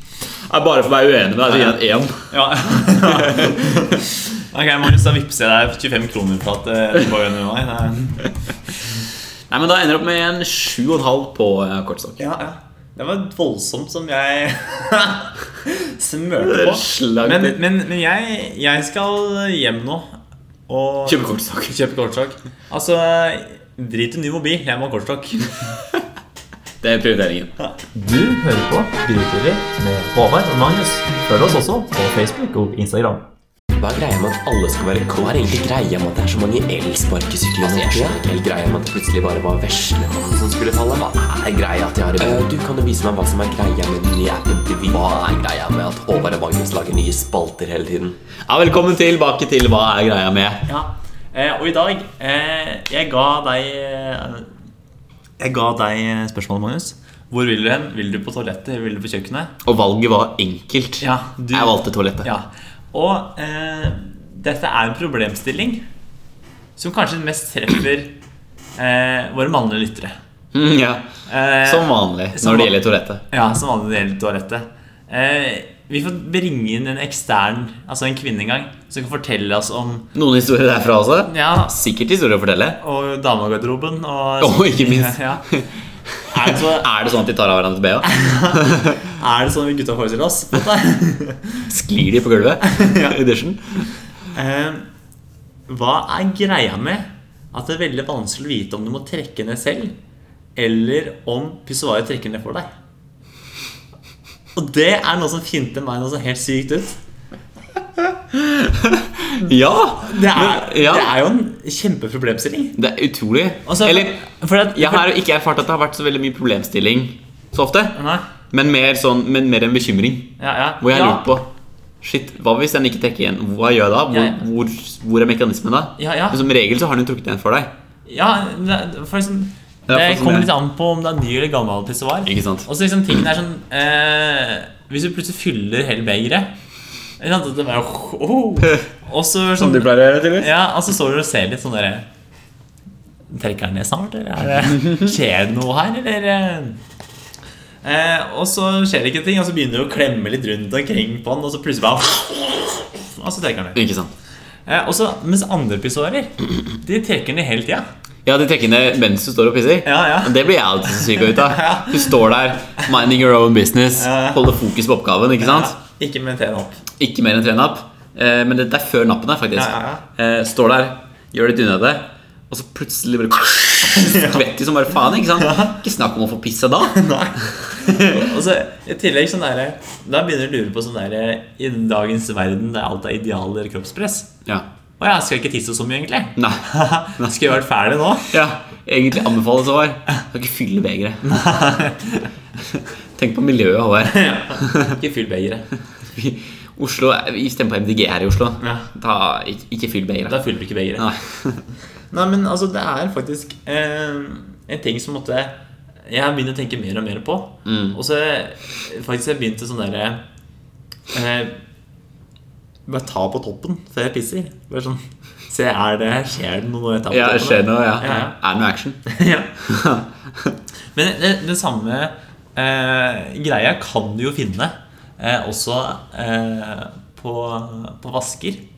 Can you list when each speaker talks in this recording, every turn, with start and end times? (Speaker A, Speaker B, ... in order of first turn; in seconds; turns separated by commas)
Speaker A: 0.4-2.3, Speaker B: 1.4-8.3, Speaker A: 2.9-4.0, Speaker A: 9.5-12.2, Speaker B: 12.2-20.1, Speaker A: 16.4-17.6, Speaker B: 20.7-25.7, Speaker A: 21.1-21.8, Speaker A: 26.8-27.5, Speaker B: 27.6-33.2, Speaker C: 33.8-48.2, Speaker A: 37.6-38.2, Speaker A: 41.3-42.5, Speaker A: 44.9-46.3, Speaker A: 48.5-50.6, Speaker B: 50.6-54.5, Speaker B: 55.4-59.5, Speaker A: 59.6-62.3, Speaker B: 61.0-65.8, Speaker B: 66.8-68.1, Speaker B: 68.8-70.2, Speaker A: 70.5-71.1, Speaker B: 71.3-72.8, Speaker A: 71.6-73.2, Speaker B: 73.3-80.1, Speaker A: 80.1-82.8, Speaker B: 81.3-81.7, Speaker B: 82.8-85.4, Speaker A: 84.4-85.7, Speaker B: 86.3-86.9, Speaker A: 86.3-89.0, Speaker B: 88.0-91.7, Speaker A: 91.7-93.9, Speaker B: 92.6-93.2, Speaker B: 94.3-94.9, Speaker B: 95.7-99.9, Speaker B: 100.5-102.7, Speaker B: 104.5-107.0, Speaker A: 108.3-111.2, Speaker B: 110.0-112.8, Speaker A: 112.8-114.2, Speaker B: 113.7-115.1, Speaker A: 114.7-118.0, Speaker B: 117.9-118.2, Speaker A: 118.5-121.5, Speaker B: 120.4-121.2, Speaker A: 122.0-127.7, Speaker B: 124.1-124.4, Speaker B: 126.0-126.4, Speaker B: 128.1-136.5, Speaker A: 129.9-130.5, Speaker A: 132.2-132.7, Speaker B: 137.2-142.1, Speaker A: 139.6-140.5, Speaker B: 143.3-146.8, Speaker B: 147.8-153.8, Speaker A: 153.8-154.1, Speaker B: 154.7-157.8, Speaker A: 158.2-165.8, Speaker B: 159.8-162.1, Speaker B: 163.9-164.5, Speaker B: 165.4-166.8, Speaker A: 167.0-177.0, Speaker B: 169.5-170.0, Speaker B: 173.8-174.4, Speaker B: 175.4-175.7, Speaker B: 176.9-184.3, Speaker B: 185.0-188.3, Speaker A: 186.3-186.6, Speaker A: 188.3-191.4, Speaker B: 191.2-192.3, Speaker A: 193.2-194.9, Speaker B: 194.0-195.7, Speaker A: 196.1-200.4, Speaker B: 198.6-198.9, Speaker B: 200.3-201.1, Speaker A: 201.0-201.6, Speaker B: 202.1-205.6, Speaker B: 206.1-210.2, Speaker A: 207.7-208.0, Speaker B: 211.1-211.6, Speaker B: 212.9-218.3, Speaker A: 217.1-219.0, Speaker B: 219.1-219.5, Speaker A: 219.6-220.5, Speaker B: 220.9-228.6